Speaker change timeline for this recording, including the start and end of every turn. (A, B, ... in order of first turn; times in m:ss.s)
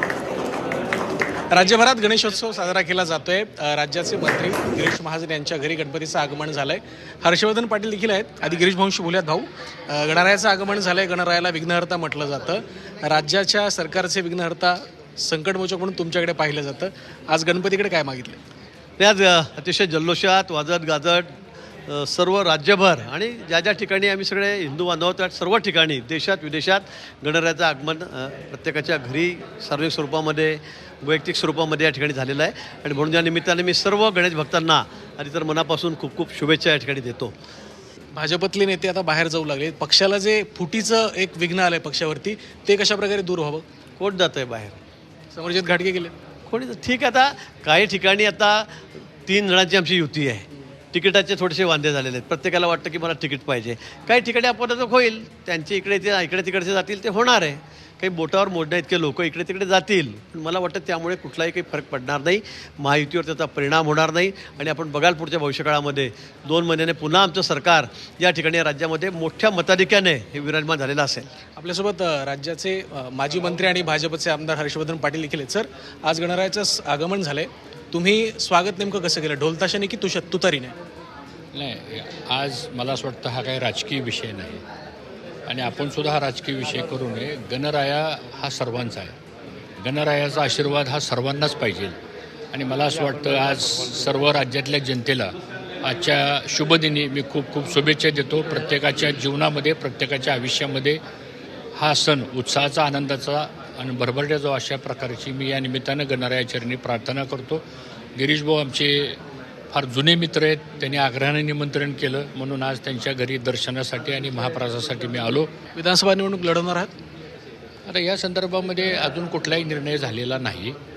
0:01.5-0:18.4 A
0:19.0-0:21.3 B
0:21.9-0:37.3 B
0:38.2-0:43.6 A
0:44.0-0:44.8 B
0:45.3-0:46.2 A
0:46.5-1:11.3 B
1:11.6-1:20.8 A
1:21.5-1:24.6 C
1:25.5-1:29.2 C
1:29.8-1:31.9 C
1:32.5-1:41.0 C
1:41.8-1:47.6 C
1:48.2-1:49.2 C
1:49.7-1:55.5 C
1:55.8-1:56.9 A
1:57.9-2:00.8 C